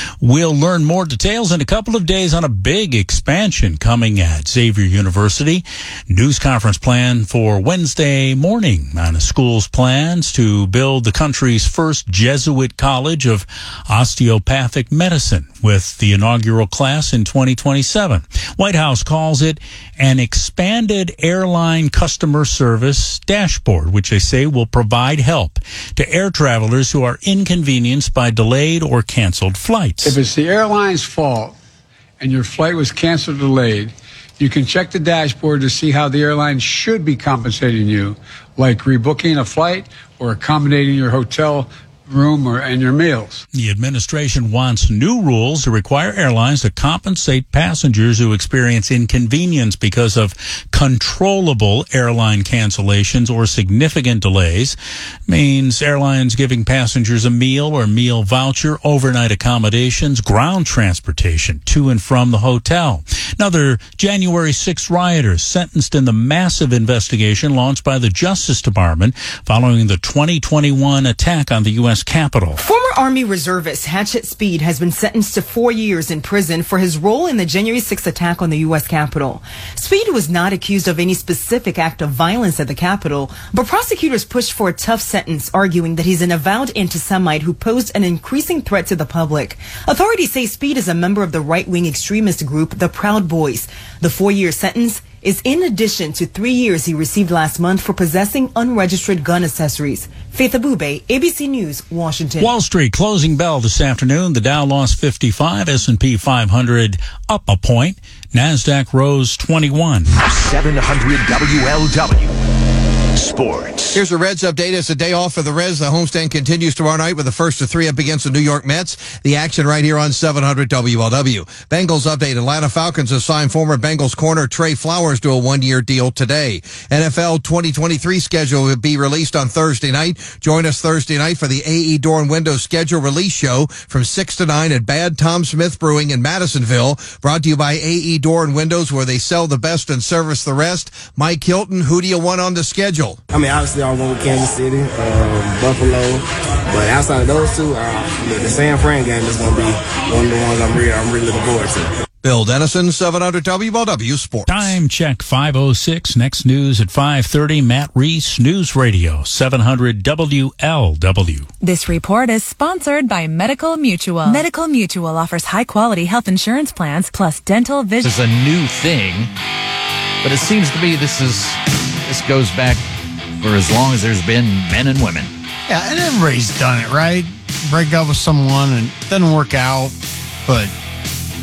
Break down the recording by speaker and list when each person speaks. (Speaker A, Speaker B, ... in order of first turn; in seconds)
Speaker A: 0.2-30.2, 43.5-54.8, 55.3-72.6, 102.4-110.1, 154.5-161.5
Speaker B: 30.0-31.6, 32.2-43.5
Speaker C: 72.6-102.5
Speaker D: 110.2-112.3, 113.2-114.0
Speaker E: 113.9-143.2, 152.2-154.8
Speaker F: 143.3-151.9
Speaker G: 161.6-168.2
Speaker H: 168.0-169.3, 170.2-172.8, 173.4-175.3
Speaker I: 175.7-180.7